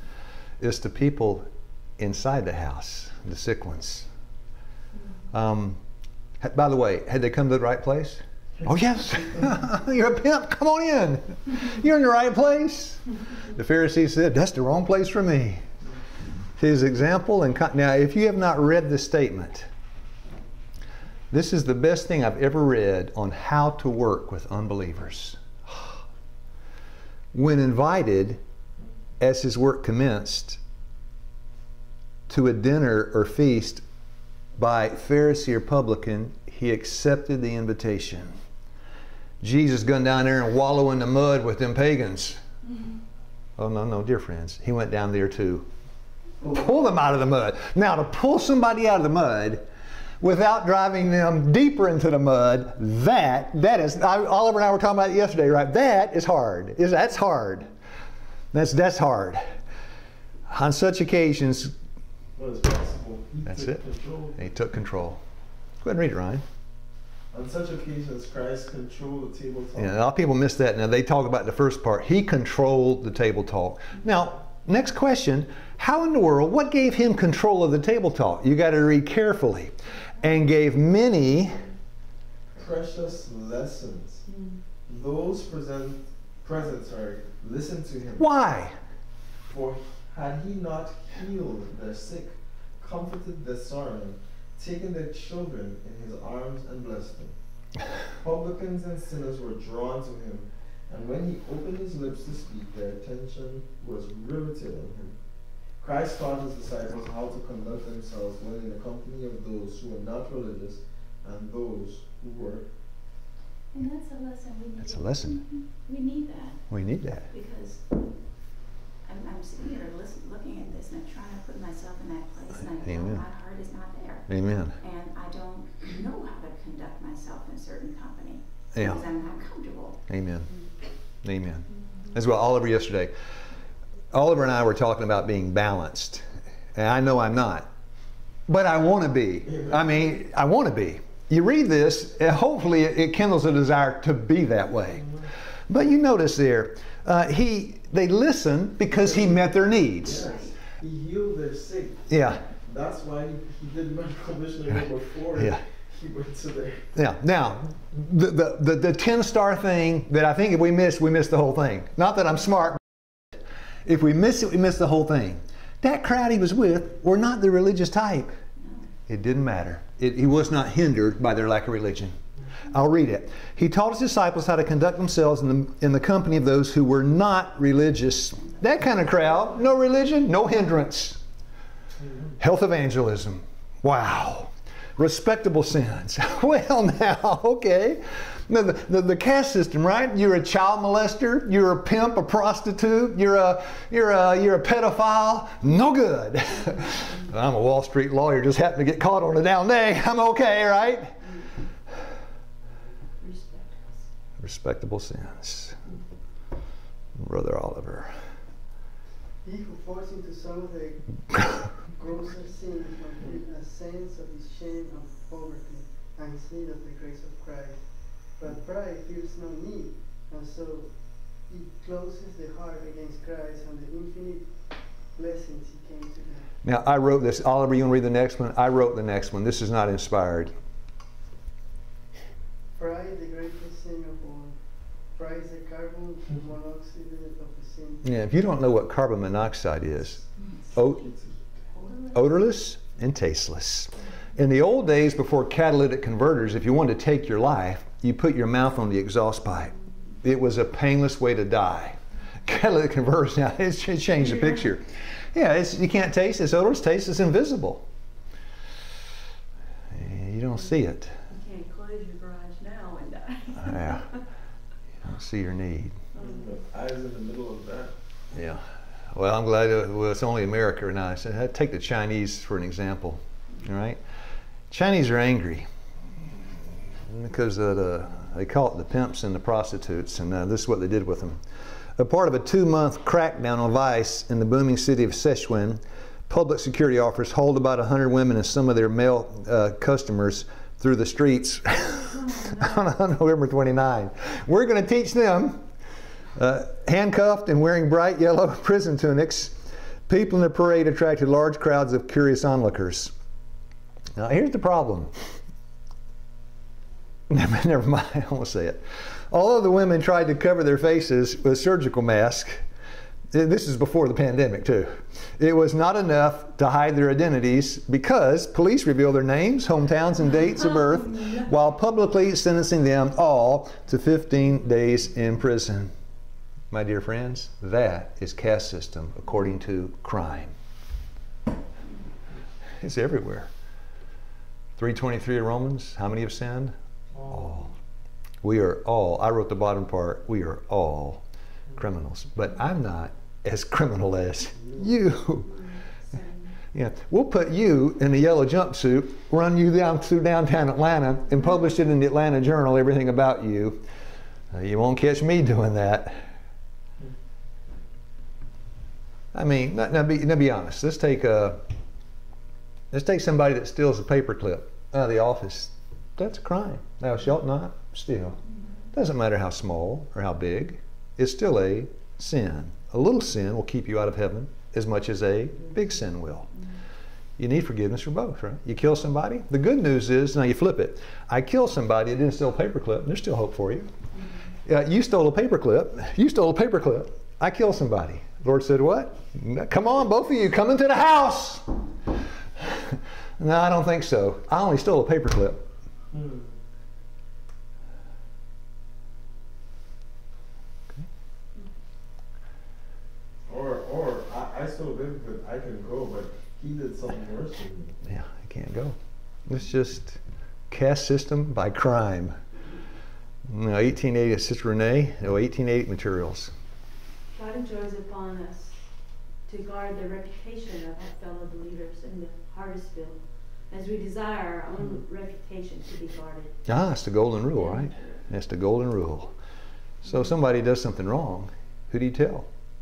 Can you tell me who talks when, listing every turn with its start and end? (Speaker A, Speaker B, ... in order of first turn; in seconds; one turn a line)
Speaker A: 0.6-4.1
Speaker A: 5.3-5.8
Speaker A: 6.4-13.0
Speaker A: 13.5-15.6
Speaker A: 16.6-19.7
Speaker A: 21.3-26.0
Speaker A: 27.3-28.4
Speaker A: 29.2-30.6
Speaker A: 32.3-33.8
Speaker A: 34.6-38.3
Speaker A: 39.4-42.4
Speaker A: 43.6-45.7
Speaker B: 46.4-47.0
Speaker A: 46.5-49.6
Speaker A: 50.2-57.7
Speaker A: 58.5-59.4
Speaker A: 60.5-61.7
Speaker B: 62.4-64.5
Speaker A: 63.5-63.8
Speaker A: 64.3-65.2
Speaker A: 65.8-66.4
Speaker B: 67.3-69.9
Speaker A: 69.8-81.6
Speaker B: 82.5-84.2
Speaker C: 84.3-84.6
Speaker B: 84.9-88.2
Speaker A: 88.2-88.8
Speaker B: 89.5-97.3
Speaker B: 98.2-105.2
Speaker B: 105.7-112.7
Speaker D: 113.7-117.9
Speaker A: 114.8-115.4
Speaker A: 116.7-117.3
Speaker D: 119.0-130.0
Speaker A: 122.8-123.2
Speaker A: 124.3-124.8
Speaker A: 128.7-129.0
Speaker A: 130.1-130.5
Speaker A: 131.2-133.1
Speaker A: 134.1-137.7
Speaker A: 138.5-145.1
Speaker B: 139.4-139.8
Speaker A: 145.7-150.2
Speaker B: 148.9-156.9
Speaker D: 150.1-150.5
Speaker A: 152.1-152.4
Speaker A: 156.9-162.8
Speaker A: 163.3-168.4
Speaker D: 168.6-168.9
Speaker A: 169.1-172.2
Speaker A: 172.7-181.2
Speaker B: 182.0-182.3
Speaker A: 182.4-201.2
Speaker C: 203.2-204.1
Speaker A: 204.4-205.8
Speaker A: 207.2-208.3
Speaker E: 209.4-226.5
Speaker A: 226.6-230.5
Speaker E: 232.7-238.1
Speaker A: 238.0-240.2
Speaker A: 240.7-241.0
Speaker B: 240.8-241.3
Speaker D: 241.9-242.1
Speaker A: 242.1-257.8
Speaker A: 259.9-261.1
Speaker C: 261.3-264.2
Speaker A: 263.6-264.1
Speaker A: 265.0-266.0
Speaker C: 266.1-266.5
Speaker B: 266.1-267.9
Speaker A: 268.3-274.0
Speaker A: 274.7-275.7
Speaker A: 277.1-281.4
Speaker A: 282.0-295.6
Speaker C: 292.1-292.8
Speaker A: 296.4-303.1
Speaker A: 304.1-305.3
Speaker A: 307.3-312.6
Speaker A: 313.3-325.9
Speaker A: 326.7-330.5
Speaker A: 332.8-333.5
Speaker A: 334.8-336.7
Speaker B: 337.1-337.5
Speaker A: 337.3-337.7
Speaker A: 338.4-341.2
Speaker A: 341.8-345.5
Speaker C: 345.5-346.5
Speaker A: 346.7-353.8
Speaker A: 354.5-356.2
Speaker A: 359.3-361.6
Speaker A: 362.9-368.4
Speaker A: 368.9-376.5
Speaker A: 377.4-383.9
Speaker A: 384.6-391.7
Speaker A: 392.6-395.6
Speaker B: 396.1-396.5
Speaker B: 403.5-407.9
Speaker A: 408.0-408.9
Speaker A: 409.5-410.2
Speaker A: 410.7-412.4
Speaker A: 413.5-416.5
Speaker C: 417.3-418.8
Speaker C: 419.4-426.6
Speaker A: 426.6-429.3
Speaker C: 427.5-428.2
Speaker A: 430.0-432.5